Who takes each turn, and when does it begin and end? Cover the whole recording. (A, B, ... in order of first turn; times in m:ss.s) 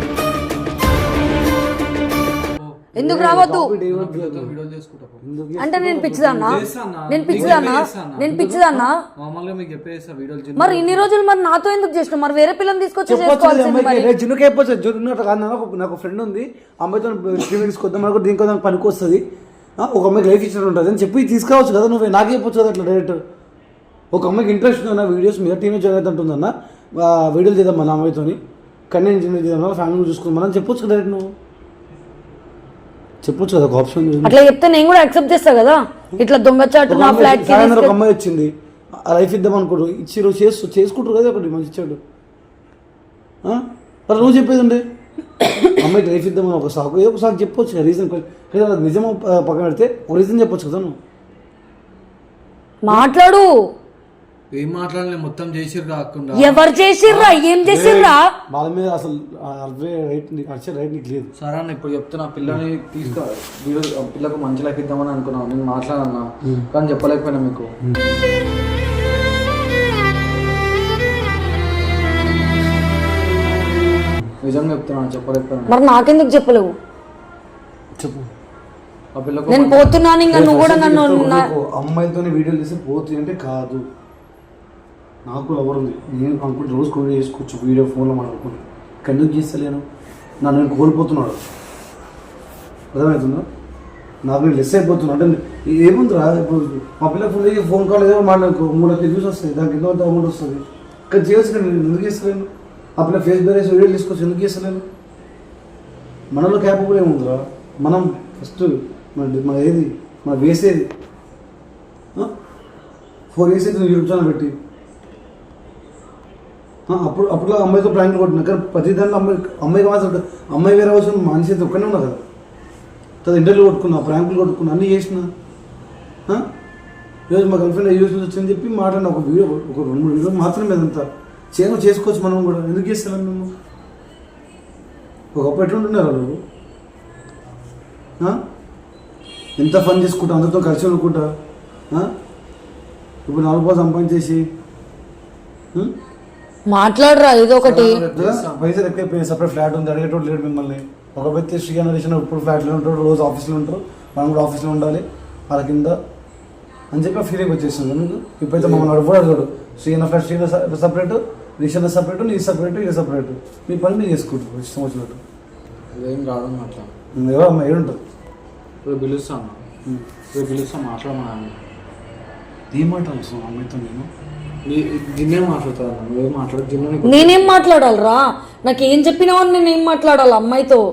0:02.5-0:02.9 A
0:03.0-0:04.5 B
0:03.0-0:03.7 C
0:03.8-0:05.2 A
0:05.2-0:06.6 B
0:05.6-0:06.6 C
0:06.4-0:08.3 A
0:07.1-0:08.9 C
0:07.3-0:07.7 B
0:08.2-0:08.9 B
0:09.2-0:11.1 A
0:10.6-0:14.1 C
0:13.1-0:19.2 B
0:19.8-0:23.2 B
0:24.1-0:31.3 B
0:33.2-0:34.4 B
0:34.2-0:37.9 C
0:36.9-0:42.0 B
0:43.4-0:44.8 B
0:45.5-0:51.0 B
0:52.8-0:53.5 C
0:54.5-0:57.4 A
0:56.3-0:58.2 C
0:57.6-1:01.3 B
1:01.4-1:07.7 A
1:14.4-1:15.8 A
1:15.7-1:16.7 C
1:18.0-1:18.3 B
1:19.1-1:20.0 A
1:19.5-1:21.4 C
1:20.3-1:23.8 B
1:25.2-1:29.8 B
1:30.4-1:31.4 B
1:32.9-1:33.4 B
1:34.2-1:44.8 B
1:46.3-1:50.9 B
1:53.3-1:54.6 B
1:56.9-2:02.2 B
2:03.2-2:05.3 B
2:07.3-2:13.5 B
2:15.3-2:16.4 B
2:19.6-2:21.3 B
2:23.2-2:24.4 B
2:26.7-2:28.0 C
2:27.6-2:28.7 A
2:28.1-2:36.0 B
2:36.9-2:45.2 B
2:38.6-2:38.9 A
2:45.9-2:46.9 A
2:47.1-2:48.0 B
2:48.8-2:49.6 A
2:50.3-2:51.6 A
2:52.7-2:54.1 B
2:54.6-2:57.6 A
2:57.0-3:00.8 C